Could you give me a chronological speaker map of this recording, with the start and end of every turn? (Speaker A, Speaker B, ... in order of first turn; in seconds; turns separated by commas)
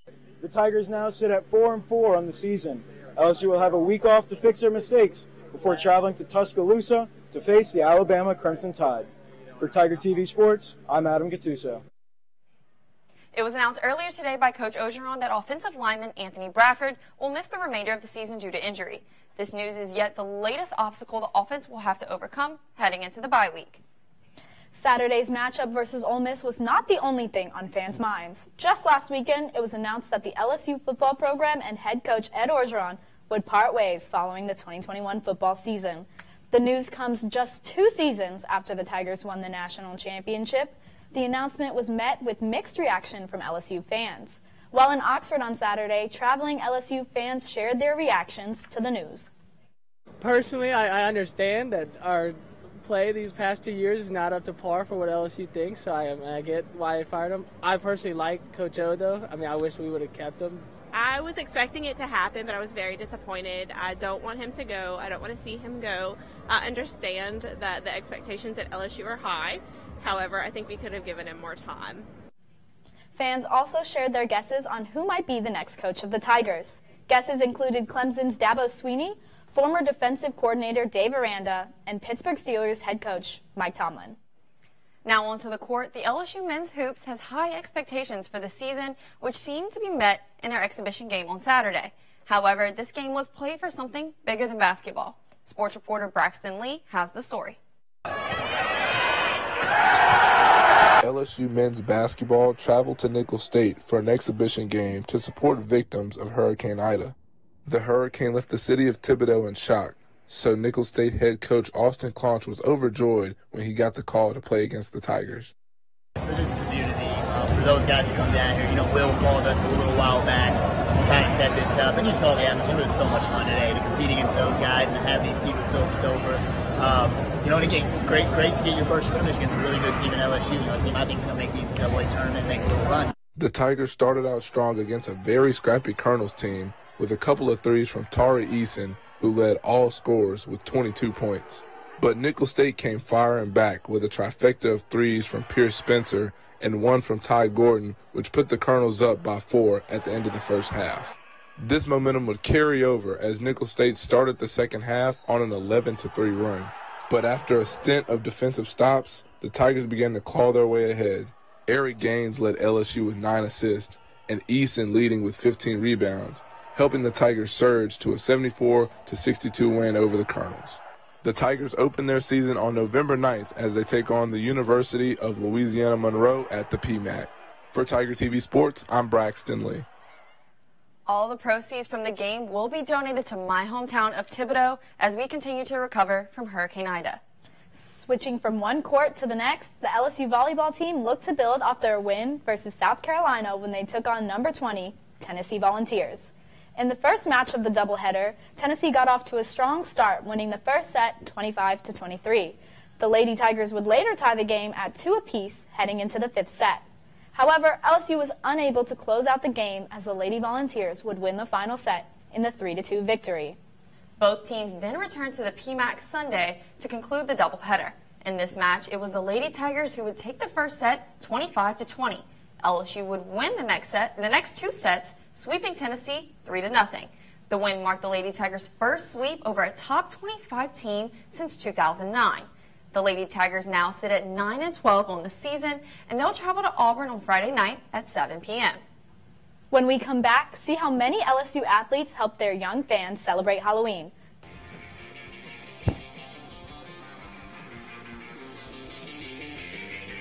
Speaker A: 0.4-11.8, Speaker B: 13.3-23.8, Speaker C: 24.7-49.3, Speaker D: 50.2-60.6, Speaker E: 60.9-72.0, Speaker C: 73.1-84.2, Speaker B: 85.0-97.6, Speaker F: 101.0-107.1, Speaker F: 107.7-115.5, Speaker G: 116.2-133.1, Speaker F: 133.3-179.8, Speaker B: 181.1-187.2, Speaker C: 187.7-206.8, Speaker C: 207.3-213.6, Speaker B: 214.2-238.8, Speaker C: 239.7-244.1